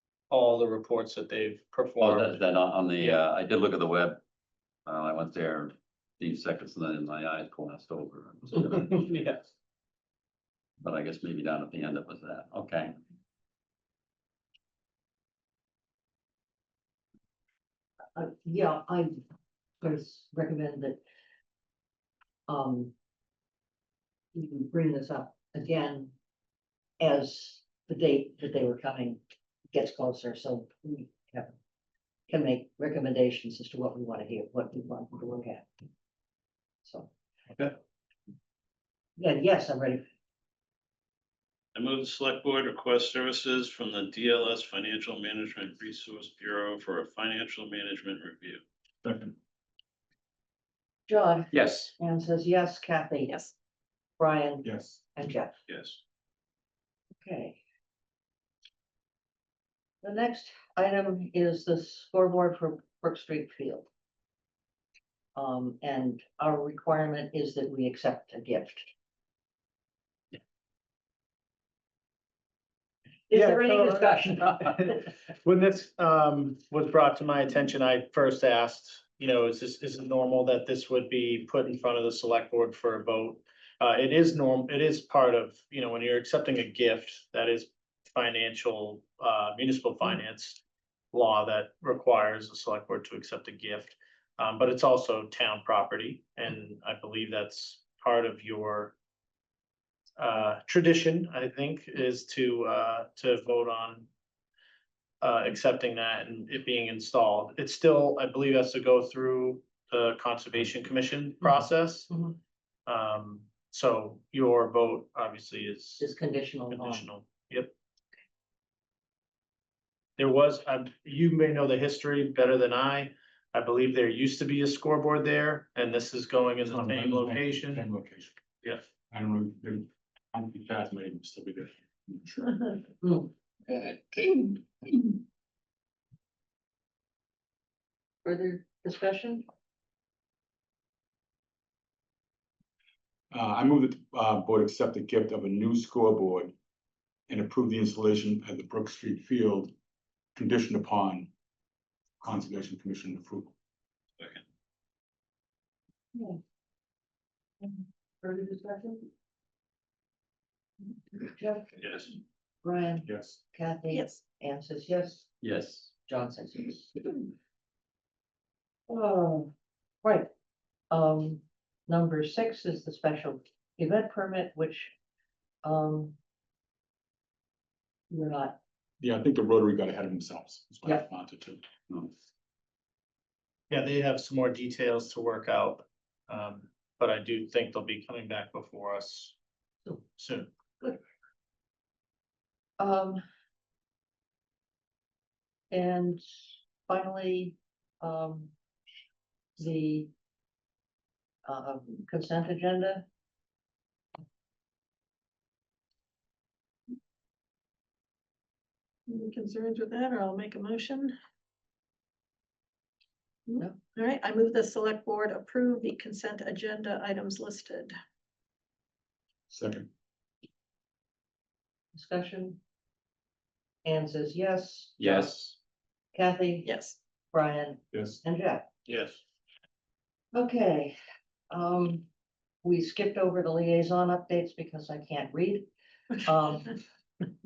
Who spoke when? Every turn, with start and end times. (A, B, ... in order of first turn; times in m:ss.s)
0:00.3-0:02.4 A
0:02.0-0:04.2 B
0:04.8-0:09.2 B
0:09.0-0:09.4 A
0:10.8-0:13.0 B
0:18.2-0:19.2 C
0:19.8-0:21.0 C
0:22.5-0:22.9 C
0:24.3-0:26.1 C
0:27.0-0:29.2 C
0:29.7-0:31.5 C
0:32.3-0:35.7 C
0:36.8-0:37.1 C
0:39.2-0:40.0 C
0:41.7-0:48.6 D
0:49.0-0:49.3 E
0:51.1-0:53.4 C
0:51.5-0:51.9 B
0:54.2-0:54.6 C
0:54.6-0:55.0 E
0:55.2-0:55.5 C
0:55.7-0:56.0 D
0:57.2-0:57.6 C
1:00.0-1:03.8 C
1:05.4-1:08.9 C
1:13.3-1:14.7 C
1:13.3-1:30.6 A
1:31.1-1:38.9 A
1:40.2-1:44.1 A
1:45.2-1:52.1 A
1:52.8-1:56.0 A
1:56.0-1:57.0 C
1:56.7-1:57.7 A
2:00.2-2:07.9 A
2:06.6-2:08.4 E
2:09.1-2:12.5 E
2:13.0-2:14.2 C
2:18.2-2:19.4 C
2:23.3-2:26.5 E
2:27.3-2:29.7 E
2:30.4-2:31.3 E
2:32.2-2:33.5 E
2:36.1-2:36.4 C
2:37.6-2:39.1 C
2:41.1-2:41.7 C
2:41.8-2:42.1 D
2:42.6-2:45.3 C
2:43.0-2:43.4 E
2:45.4-2:45.9 B
2:46.1-2:47.2 C
2:48.9-2:49.5 C
2:50.0-2:50.3 C
2:50.9-2:54.9 C
2:55.6-2:56.2 C
2:58.1-2:58.6 C
2:59.0-3:02.1 E
3:03.7-3:09.3 A
3:10.1-3:10.5 A
3:12.8-3:13.2 C
3:15.7-3:16.2 C
3:16.9-3:18.5 C
3:19.6-3:20.1 C
3:21.4-3:23.0 C
3:29.1-3:31.2 F
3:33.5-3:38.0 F
3:39.5-3:39.9 E
3:41.9-3:42.6 C
3:43.8-3:45.4 C
3:45.0-3:45.5 B
3:46.1-3:46.7 C
3:46.6-3:47.0 F
3:47.3-3:48.7 C
3:47.9-3:48.2 E
3:48.9-3:49.2 D
3:50.3-3:50.9 C
3:51.5-3:52.0 C
3:52.6-3:55.7 C
3:56.2-3:56.8 C